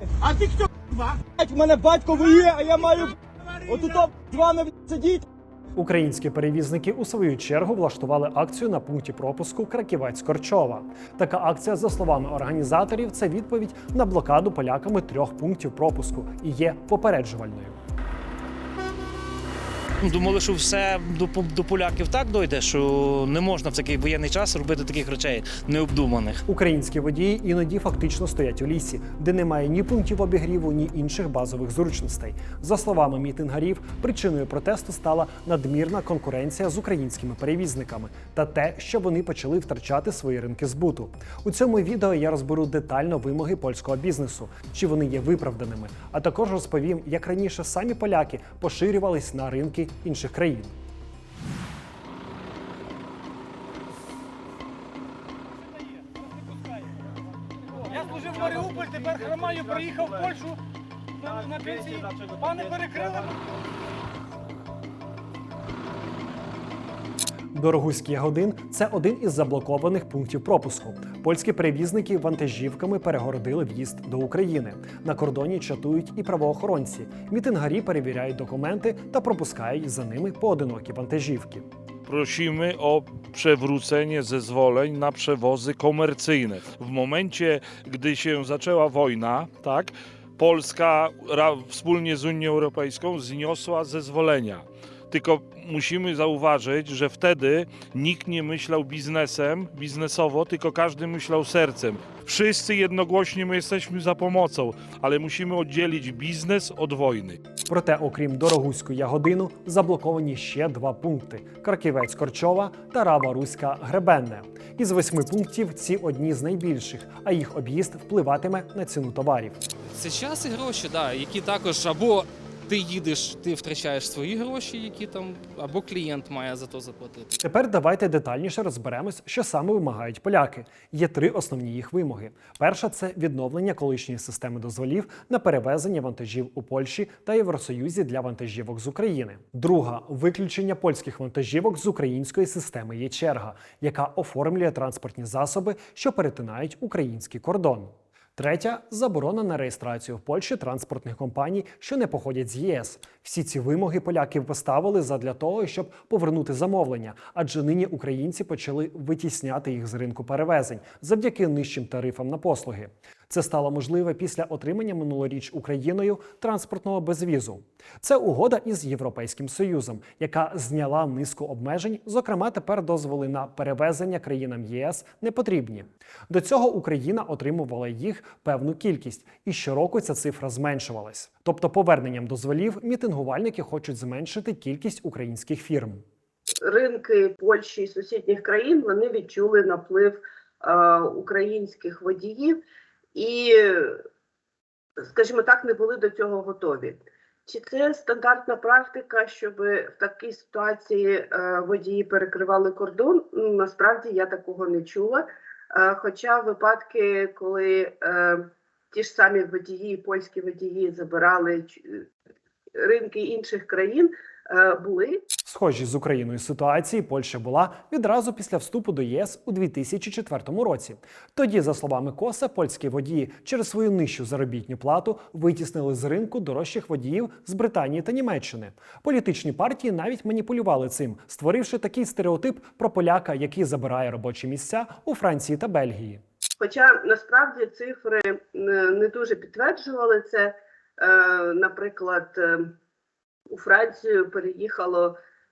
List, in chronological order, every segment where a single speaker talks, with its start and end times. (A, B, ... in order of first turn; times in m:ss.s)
0:01.3-0:03.2 A
0:03.7-0:05.2 A
0:05.7-0:17.8 B
0:20.0-0:26.4 C
0:26.4-0:50.7 B
0:57.8-1:00.6 D
1:01.2-1:03.4 D
1:07.5-1:21.6 B
1:22.0-1:47.4 E
1:47.7-1:59.6 B
1:59.9-2:07.4 F
2:07.4-3:06.0 B
3:06.6-3:12.6 G
3:13.1-3:14.0 G
3:15.0-3:32.1 G
3:32.8-3:35.2 G
3:35.4-3:56.2 B
3:56.6-4:02.7 G
4:03.5-4:05.2 G